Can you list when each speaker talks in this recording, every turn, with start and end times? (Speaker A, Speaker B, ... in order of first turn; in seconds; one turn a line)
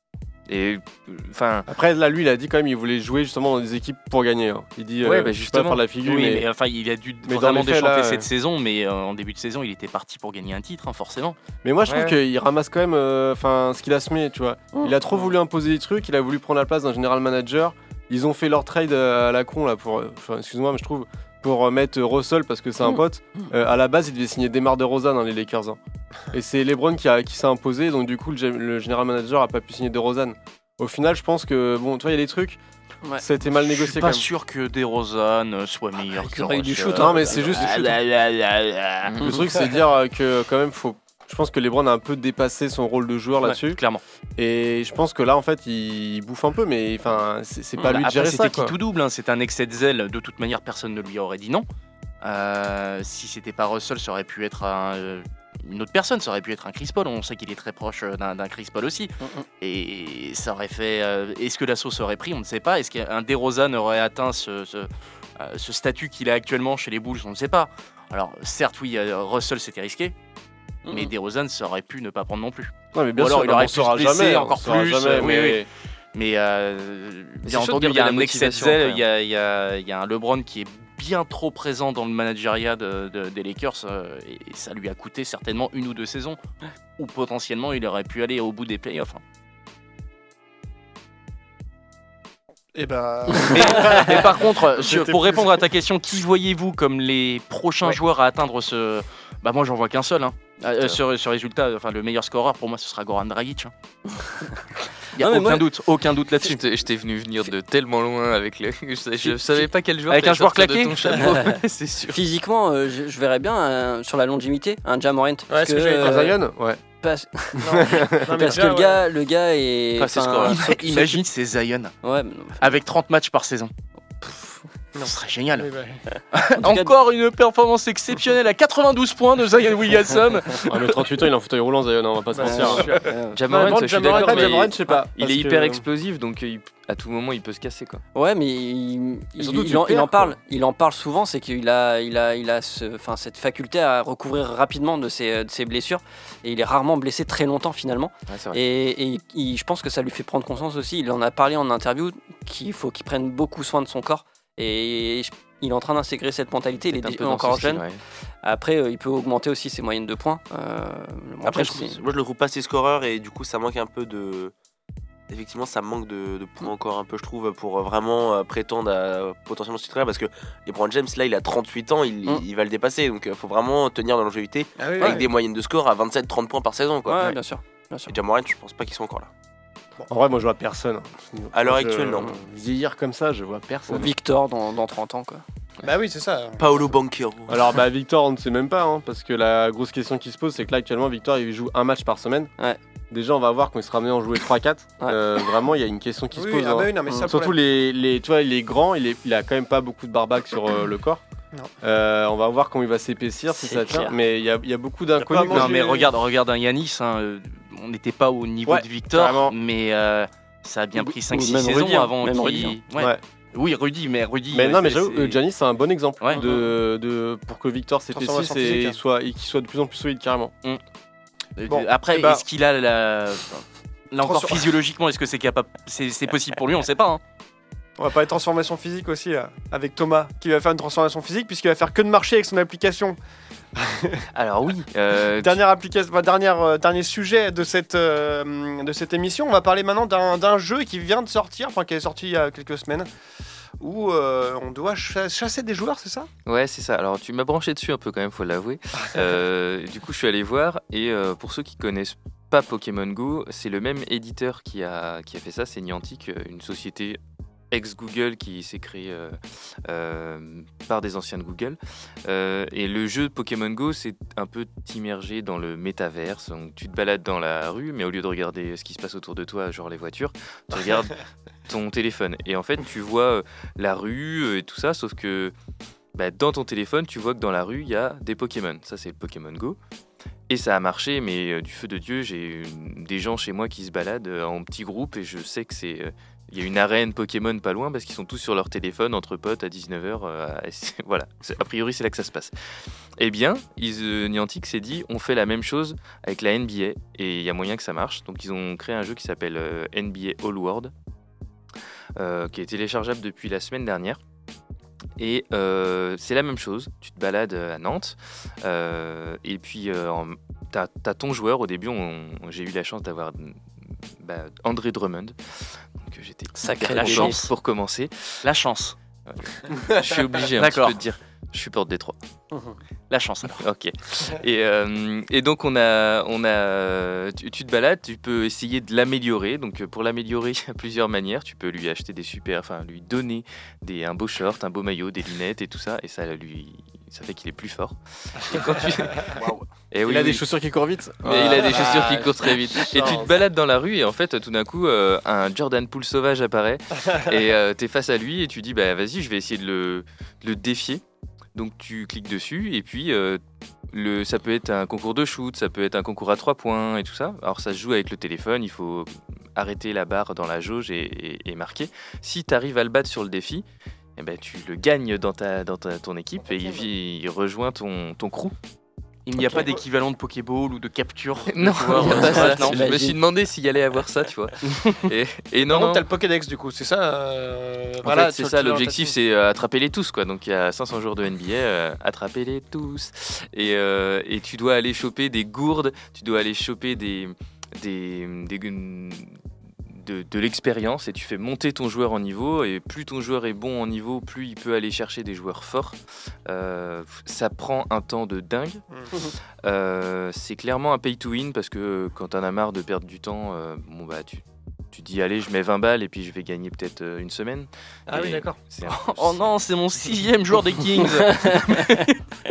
Speaker A: 0.5-1.7
Speaker B: 1.7-6.5
Speaker A: 5.0-5.8
Speaker C: 6.0-11.4
Speaker B: 7.3-8.3
Speaker B: 11.6-25.8
Speaker A: 11.9-12.2
Speaker D: 22.8-23.5
Speaker B: 26.3-32.6
Speaker B: 33.2-34.3
Speaker C: 33.5-39.3
Speaker D: 36.2-37.7
Speaker B: 37.0-38.0
Speaker A: 39.1-39.4
Speaker B: 39.2-43.8
Speaker C: 43.7-44.0
Speaker B: 44.4-48.8
Speaker C: 47.8-51.7
Speaker C: 52.2-70.1
Speaker D: 59.2-59.5
Speaker D: 70.9-71.1
Speaker C: 70.9-86.4
Speaker B: 72.9-75.7
Speaker A: 77.4-79.0
Speaker C: 87.0-89.2
Speaker E: 92.7-95.6
Speaker C: 93.5-103.7
Speaker A: 100.8-101.0
Speaker C: 105.2-106.6
Speaker D: 105.2-105.6
Speaker A: 106.4-112.2
Speaker C: 110.1-111.4
Speaker D: 112.1-116.4
Speaker E: 115.5-116.3
Speaker B: 116.0-116.8
Speaker D: 117.0-121.2
Speaker E: 117.6-119.0
Speaker B: 117.7-118.3
Speaker F: 120.0-120.6
Speaker C: 120.5-121.9
Speaker D: 122.0-122.7
Speaker C: 122.6-123.7
Speaker D: 124.2-124.6
Speaker E: 125.0-126.0
Speaker C: 125.0-125.7
Speaker C: 126.3-130.8
Speaker D: 126.6-126.9
Speaker B: 130.7-135.8
Speaker E: 132.3-134.7
Speaker D: 132.4-134.4
Speaker A: 133.3-138.0
Speaker D: 138.1-157.8
Speaker B: 139.4-140.4
Speaker A: 148.3-148.6
Speaker A: 156.9-158.0
Speaker D: 158.4-162.0
Speaker F: 161.4-164.5
Speaker F: 165.3-177.4
Speaker E: 174.8-175.3
Speaker D: 177.1-178.1
Speaker F: 178.1-179.3
Speaker B: 180.1-184.1
Speaker F: 181.5-182.4
Speaker D: 183.9-185.4
Speaker E: 185.8-186.6
Speaker F: 186.6-187.8
Speaker B: 187.5-192.5
Speaker B: 193.1-201.2
Speaker E: 196.3-197.6
Speaker B: 201.8-205.8
Speaker D: 203.5-204.1
Speaker E: 205.3-206.0
Speaker C: 205.4-215.4
Speaker B: 208.7-209.5
Speaker D: 210.9-212.8
Speaker B: 212.9-213.2
Speaker B: 214.5-220.5
Speaker E: 218.1-219.0
Speaker C: 221.6-227.2
Speaker E: 221.7-222.4
Speaker E: 224.2-224.7
Speaker E: 228.0-233.2
Speaker E: 233.8-234.2
Speaker A: 234.3-235.6
Speaker E: 235.4-243.1
Speaker E: 243.8-246.3
Speaker A: 246.4-257.2
Speaker A: 257.7-271.2
Speaker A: 271.7-275.5
Speaker A: 276.2-279.8
Speaker A: 280.5-292.5
Speaker A: 293.2-300.9
Speaker A: 302.2-304.2
Speaker A: 305.2-313.7
Speaker A: 314.2-318.4
Speaker D: 316.6-317.4
Speaker C: 316.9-317.5
Speaker C: 318.4-318.9
Speaker A: 319.3-322.1
Speaker C: 320.6-321.0
Speaker C: 323.1-323.6
Speaker A: 323.5-339.4
Speaker F: 339.2-339.7
Speaker A: 339.9-340.4
Speaker B: 340.1-342.3
Speaker A: 341.2-351.0
Speaker E: 341.4-342.3
Speaker B: 342.8-343.2
Speaker A: 351.6-353.4
Speaker A: 353.9-363.6
Speaker A: 364.2-368.5
Speaker C: 369.3-372.8
Speaker E: 369.4-369.8
Speaker A: 371.5-376.1
Speaker D: 372.0-373.2
Speaker E: 375.7-379.1
Speaker A: 378.0-389.4
Speaker A: 389.9-398.8
Speaker A: 399.6-409.6
Speaker E: 408.1-408.6
Speaker C: 408.9-412.2
Speaker D: 411.3-412.0